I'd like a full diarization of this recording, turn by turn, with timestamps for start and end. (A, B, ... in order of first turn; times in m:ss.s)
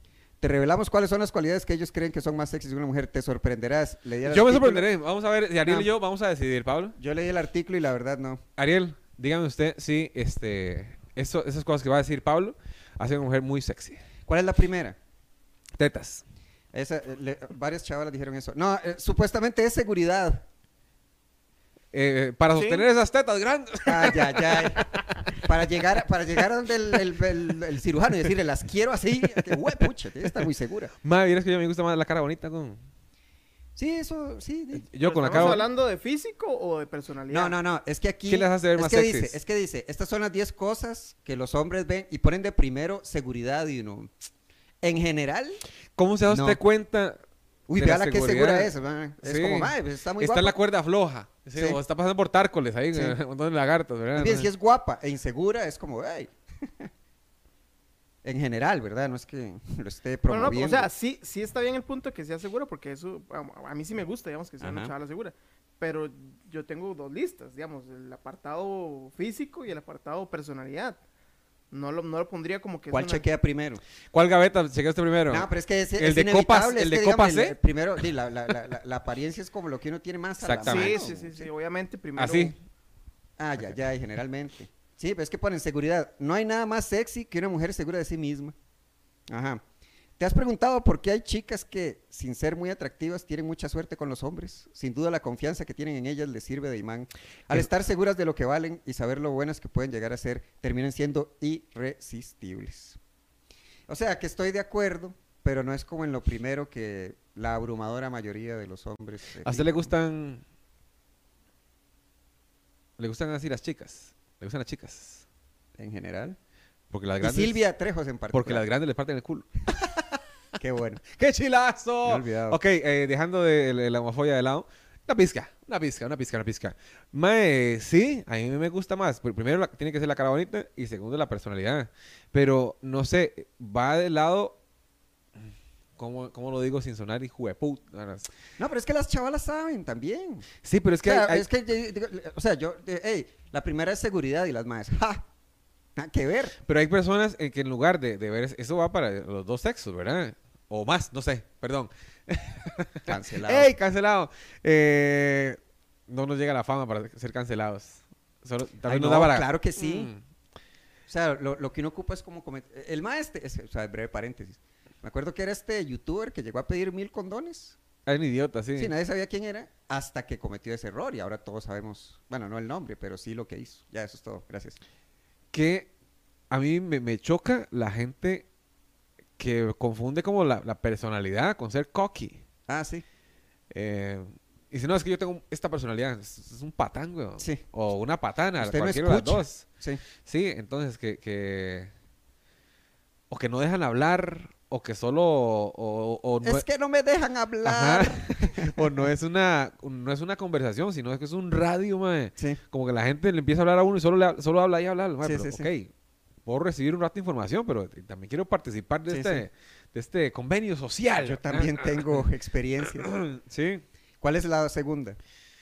0:00.4-0:04.9 A
0:04.2-0:07.0 B
0:07.0-0:08.4 A
0:08.6-0:14.0 B
0:14.3-0:15.0 A
0:15.8-0:16.2 B
0:16.7-0:20.4 A
0:21.9-0:25.0 B
0:22.5-0:22.8 C
0:23.8-0:24.8 A
0:25.4-0:30.9 A
0:31.0-0:32.8 B
0:33.8-0:35.6 A
0:34.8-0:35.6 B
0:35.0-0:37.6 C
0:37.3-0:44.1 A
0:38.3-0:39.4 B
0:44.8-0:45.6 A
0:46.0-0:47.2 B
0:46.3-0:46.6 A
0:47.7-0:50.6 A
0:47.7-0:54.5 B
0:54.1-0:56.9 A
0:58.2-1:00.9 A
1:00.3-1:11.0 C
1:04.6-1:04.9 A
1:11.7-1:13.2 C
1:12.9-1:13.8 A
1:14.1-1:17.6 B
1:15.3-1:21.5 A
1:20.4-1:21.1 B
1:20.6-1:22.6 C
1:22.2-1:22.5 B
1:23.4-1:28.5 A
1:29.3-1:29.6 A
1:30.2-1:43.0 A
1:43.9-1:49.9 A
1:49.4-1:50.4 B
1:53.0-1:55.2 B
1:55.8-1:56.4 A
1:56.9-1:57.6 B
1:57.2-1:58.6 A
1:58.3-1:59.9 B
2:00.6-2:01.0 A
2:01.1-2:14.6 B
2:02.0-2:02.6 A
2:16.0-2:18.3 B
2:18.6-2:20.5 A
2:20.6-2:21.4 B
2:21.0-2:25.2 A
2:26.0-2:26.6 A
2:26.6-2:40.2 B
2:33.1-2:33.7 A
2:38.8-2:40.1 A
2:41.1-2:47.8 A
2:48.0-2:48.9 B
2:48.8-2:54.8 A
2:55.5-2:55.9 B
2:56.5-2:58.5 B
2:59.4-3:02.4 B
3:02.7-3:03.0 A
3:03.7-3:09.6 B
3:08.6-3:10.0 A
3:10.2-3:11.9 B
3:13.3-3:16.6 B
3:16.4-3:18.9 A
3:17.6-3:25.9 B
3:25.2-3:25.7 A
3:26.4-3:32.2 B
3:29.1-3:29.4 A
3:31.2-3:33.1 A
3:33.0-3:33.8 B
3:34.2-3:35.2 A